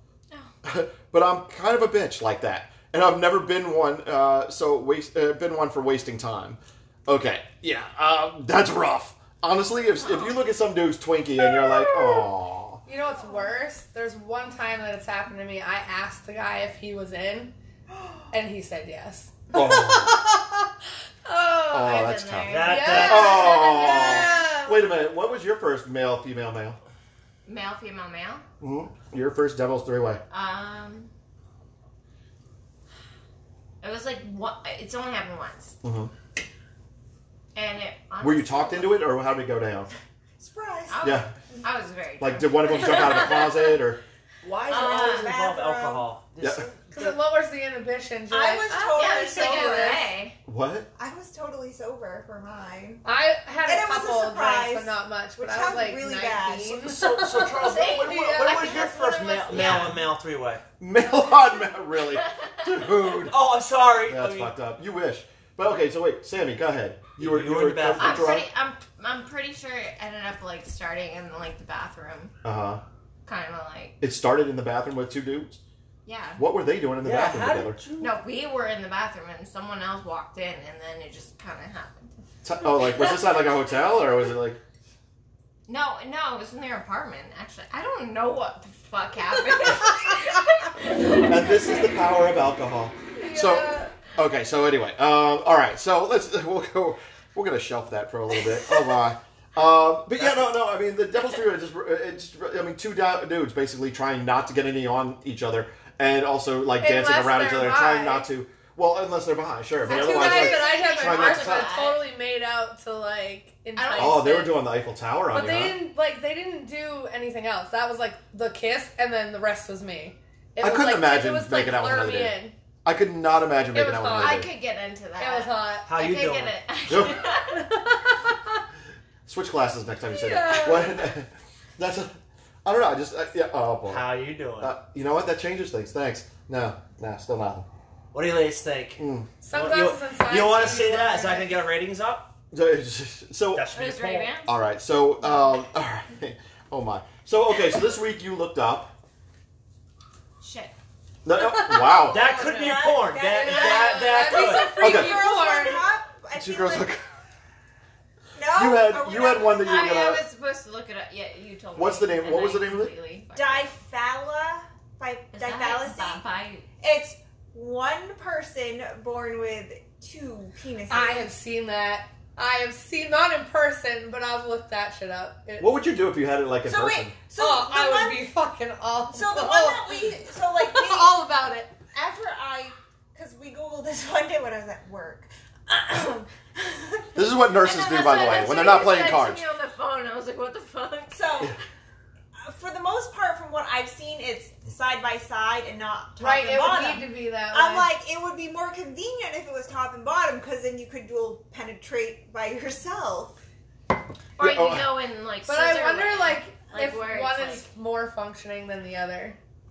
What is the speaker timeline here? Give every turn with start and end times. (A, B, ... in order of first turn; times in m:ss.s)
0:00.6-0:12.8 A
0:10.0-0:10.3 B
0:11.8-0:12.2 B
0:12.9-0:17.5 C
0:18.3-0:20.7 C
0:19.5-0:20.2 A
0:21.2-0:21.8 C
0:21.7-0:24.5 B
0:21.7-0:26.8 A
0:22.5-0:23.6 D
0:22.7-0:24.8 C
0:27.4-0:28.4 B
0:28.6-0:30.2 A
0:30.3-0:31.1 B
0:33.8-0:35.8 B
0:35.8-0:36.1 A
0:37.5-0:39.0 B
0:38.2-0:39.9 A
0:40.4-0:41.0 E
0:40.9-0:43.8 B
0:41.0-0:41.3 A
0:42.2-0:44.0 A
0:44.4-0:47.2 D
0:44.7-0:45.3 B
0:44.7-0:46.1 E
0:46.4-0:46.7 A
0:46.9-0:50.1 C
0:48.3-0:50.1 E
0:48.9-0:50.4 B
0:50.5-0:50.9 A
0:51.0-0:53.0 E
0:53.0-0:59.3 C
0:53.6-0:56.9 E
0:56.8-1:00.6 D
0:57.5-1:00.0 B
0:59.6-0:59.8 A
1:00.8-1:03.4 A
1:03.3-1:04.5 D
1:04.1-1:08.5 A
1:07.2-1:08.4 D
1:08.0-1:12.3 B
1:12.4-1:12.8 A
1:13.3-1:14.0 B
1:14.0-1:15.6 A
1:16.0-1:16.4 B
1:16.4-1:17.8 A
1:17.0-1:18.2 D
1:18.0-1:22.1 B
1:22.4-1:24.6 A
1:25.7-1:32.0 B
1:31.1-1:51.7 A
1:33.2-1:33.9 C
1:40.2-1:40.5 D
1:46.8-1:48.3 C
1:49.8-1:52.0 B
1:49.9-1:54.5 C
1:53.8-1:54.5 B
1:54.0-1:55.8 A
1:55.3-2:02.5 C
2:00.6-2:04.5 A
2:03.7-2:04.5 C
2:04.2-2:07.6 B
2:05.2-2:05.9 C
2:05.8-2:06.6 D
2:06.9-2:07.2 A
2:07.5-2:08.6 C
2:09.3-2:12.1 A
2:10.1-2:11.0 C
2:12.6-2:17.7 A
2:13.9-2:14.8 D
2:18.1-2:22.3 D
2:19.0-2:19.3 A
2:19.4-2:21.6 C
2:22.5-2:23.7 A
2:23.5-2:24.4 D
2:23.7-2:24.5 B
2:24.4-2:28.9 A
2:30.4-2:30.8 B
2:31.2-2:32.3 A
2:31.4-2:35.8 C
2:32.1-2:34.8 D
2:32.3-2:37.0 E
2:34.8-2:35.2 A
2:36.3-2:37.0 A
2:38.4-2:40.1 E
2:38.5-2:40.2 A
2:39.6-2:43.8 B
2:41.8-2:42.9 A
2:43.4-2:46.2 E
2:45.3-2:46.6 B
2:46.8-2:51.3 E
2:50.9-2:55.7 C
2:55.6-2:57.2 A
2:56.6-2:58.3 E
2:57.4-3:01.7 C
2:59.1-3:01.2 E
3:01.9-3:07.2 E
3:07.2-3:09.4 A
3:07.6-3:11.5 B
3:11.1-3:11.6 E
3:12.4-3:23.4 E
3:16.2-3:17.9 C
3:24.4-3:27.6 B
3:24.4-3:24.9 A
3:25.5-3:29.4 C